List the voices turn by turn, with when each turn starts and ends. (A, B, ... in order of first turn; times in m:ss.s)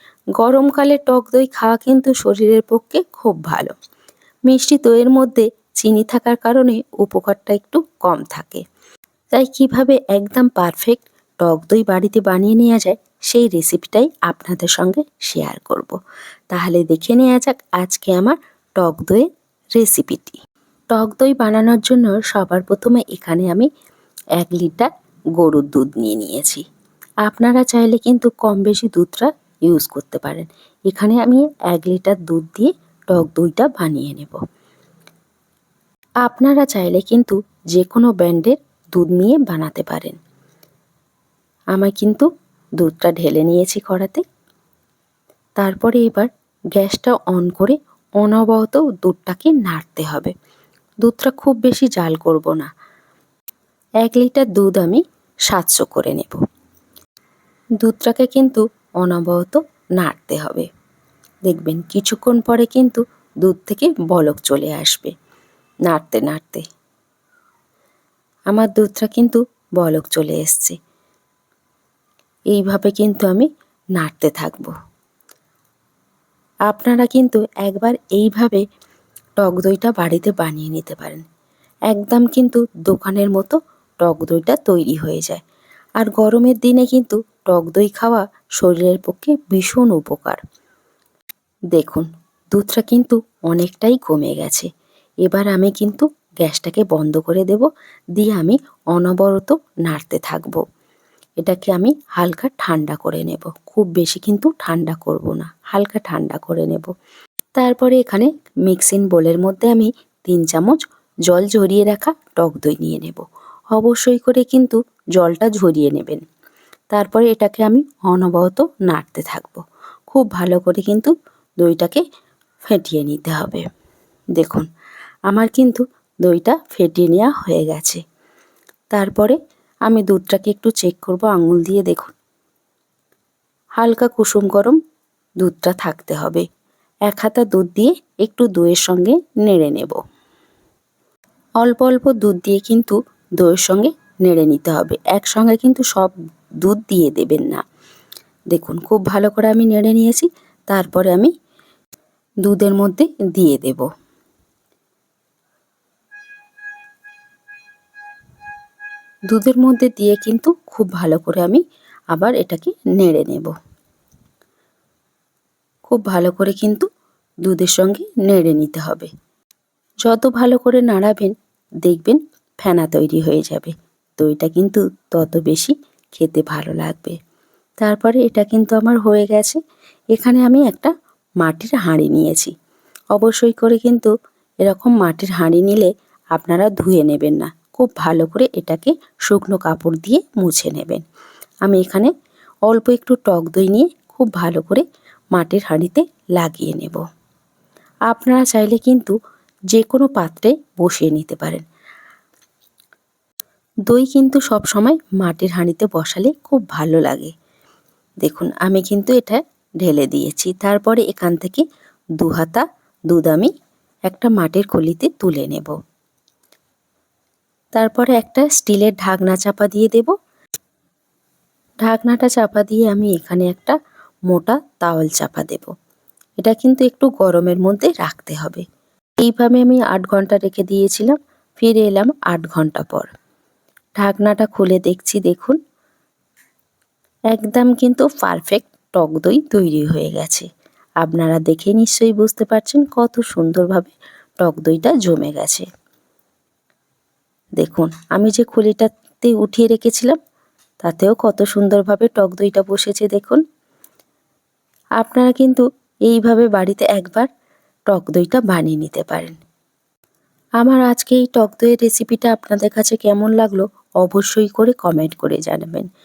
0:00.4-0:03.7 A
0:04.5-0:08.6 A
0:09.3-0:15.9 A
0:16.5-0:20.4 A
0:20.9-0:23.7 A
0:24.4-0:26.6 A
0:27.2-0:34.4 A
0:36.2-0:40.2 A
0:41.7-0:42.2 A
0:42.8-0:44.2 A
0:45.6-0:50.3 A
0:51.0-0:52.6 A
0:54.0-0:56.4 A
0:57.8-1:00.7 A
1:01.5-1:05.1 A
1:05.9-1:06.6 A
1:08.5-1:10.8 A
1:12.5-1:13.4 A
1:14.0-1:14.7 A
1:16.7-1:18.6 A
1:19.4-1:21.2 A
1:21.9-1:25.4 A
1:26.0-1:30.4 A
1:31.7-1:34.7 A
1:35.2-1:40.6 A
1:41.4-1:46.9 A
1:47.6-1:56.2 A
1:56.9-2:02.0 A
2:02.6-2:03.6 A
2:04.4-2:04.6 A
2:05.3-2:08.0 A
2:08.9-2:09.4 A
2:09.9-2:12.1 A
2:13.8-2:14.8 A
2:15.4-2:16.4 A
2:17.1-2:20.0 A
2:21.6-2:27.6 A
2:28.5-2:31.3 A
2:32.4-2:33.9 A
2:39.3-2:41.6 A
2:42.1-2:43.5 A
2:45.9-2:46.9 A
2:47.4-2:49.1 A
2:50.0-2:51.3 A
2:51.8-2:57.2 A
2:57.8-2:59.6 A
3:00.1-3:02.5 A
3:03.1-3:04.1 A
3:04.6-3:11.0 A
3:11.6-3:12.1 A
3:12.7-3:17.0 A
3:18.1-3:19.1 A
3:19.7-3:21.6 A
3:23.9-3:27.3 A
3:28.2-3:31.6 A
3:32.2-3:33.5 A
3:34.1-3:35.8 A
3:37.8-3:40.1 A
3:41.9-3:43.8 A
3:44.3-3:45.7 A
3:46.4-3:48.6 A
3:49.2-3:53.1 A
3:54.0-3:55.6 A
3:57.3-4:00.5 A
4:01.0-4:05.7 A
4:07.6-4:10.2 A
4:10.8-4:13.4 A
4:15.0-4:17.3 A
4:17.9-4:19.4 A
4:20.6-4:25.9 A